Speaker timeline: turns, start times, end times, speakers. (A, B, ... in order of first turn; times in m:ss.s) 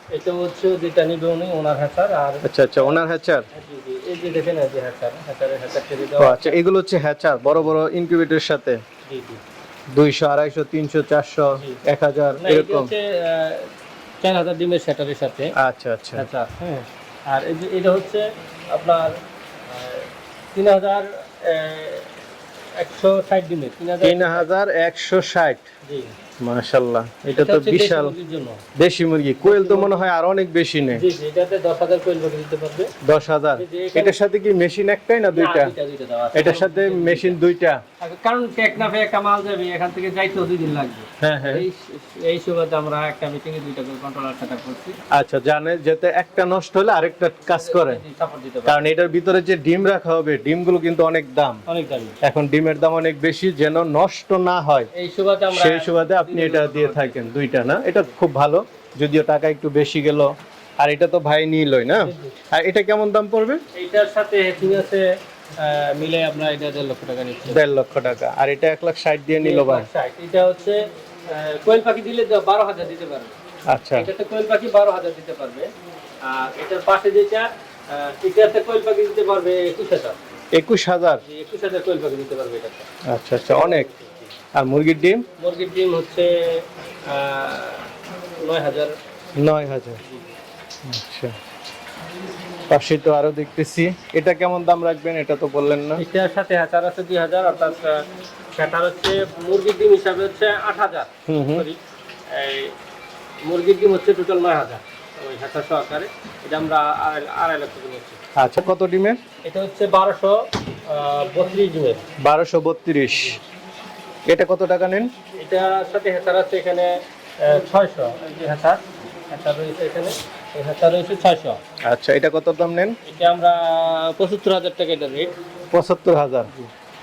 0:00.1-0:03.0 A
0:02.4-0:03.4 B
0:03.5-0:06.6 A
0:06.2-0:08.8 B
0:07.5-0:07.7 A
0:09.1-0:09.4 A
0:09.9-0:12.9 B
0:12.4-0:13.7 A
0:14.2-0:15.5 A
0:15.6-0:16.2 B
0:16.2-0:19.1 A
0:19.6-0:22.1 A
0:22.8-0:24.5 A
0:24.0-0:25.6 B
0:25.8-0:26.1 A
0:26.4-0:28.1 B
0:27.4-0:28.6 A
0:28.8-0:31.0 B
0:29.4-0:30.0 A
0:30.9-0:32.9 A
0:33.0-0:35.7 B
0:33.6-0:34.2 A
0:35.3-0:37.4 A
0:36.3-0:37.8 B
0:38.0-0:45.0 A
0:41.2-0:41.6 B
0:45.1-0:48.0 B
0:47.5-0:48.9 A
0:48.6-0:51.6 B
0:51.7-0:52.2 A
0:52.2-0:54.9 B
0:54.9-0:57.3 A
0:55.5-1:03.6 B
1:01.9-1:02.3 A
1:03.7-1:05.0 A
1:05.6-1:07.6 A
1:07.5-1:09.9 B
1:09.3-1:13.4 A
1:13.7-1:14.1 B
1:13.9-1:15.7 A
1:16.2-1:20.2 A
1:20.5-1:21.2 B
1:21.2-1:22.9 A
1:23.1-1:23.9 B
1:23.5-1:24.3 A
1:24.5-1:25.2 B
1:25.4-1:27.9 A
1:28.4-1:28.9 A
1:29.4-1:30.0 B
1:30.0-1:30.3 A
1:30.8-1:31.3 B
1:32.7-1:36.0 B
1:36.0-1:38.0 A
1:38.5-1:42.7 A
1:41.3-1:41.7 B
1:43.4-1:48.2 A
1:48.4-1:49.2 B
1:49.4-1:50.4 A
1:50.9-1:52.0 A
1:52.2-1:53.4 B
1:54.3-1:55.1 B
1:55.4-1:56.9 A
1:57.4-2:01.6 A
2:01.8-2:03.0 B
2:03.0-2:05.3 A
2:05.7-2:06.5 B